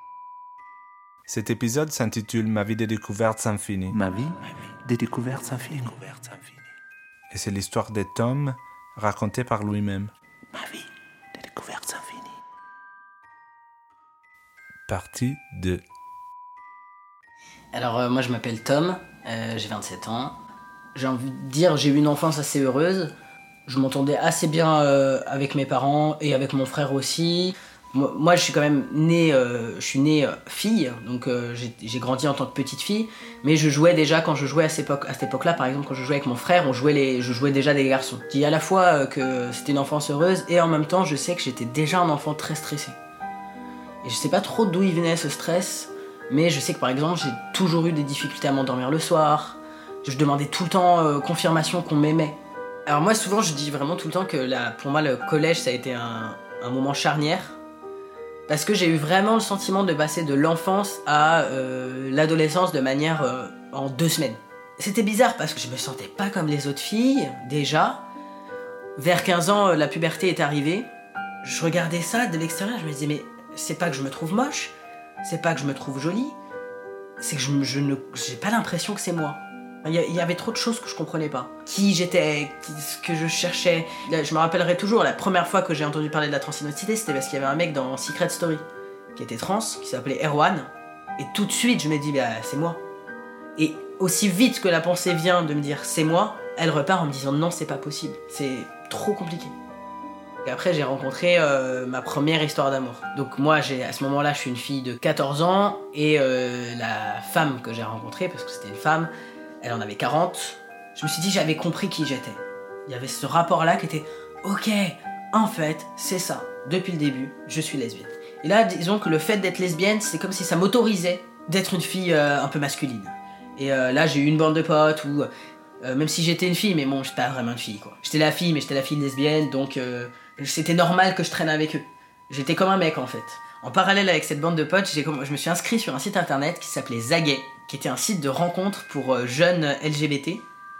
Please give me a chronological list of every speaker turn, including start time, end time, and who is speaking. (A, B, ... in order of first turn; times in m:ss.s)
0:01.3-0:04.0 A
0:03.9-0:06.6 B
0:07.3-0:10.1 A
0:10.5-0:12.4 B
0:14.9-0:15.8 A
0:17.7-0:20.3 C
0:21.0-0:23.1 C
0:23.7-0:43.0 C
0:44.0-0:57.6 C
0:58.5-1:08.0 C
1:09.0-1:10.9 C
1:11.4-1:16.4 C
1:17.2-1:28.6 C
1:29.1-1:32.8 C
1:33.6-1:39.6 C
1:40.4-1:49.1 C
1:49.6-2:05.3 C
2:05.8-2:20.4 C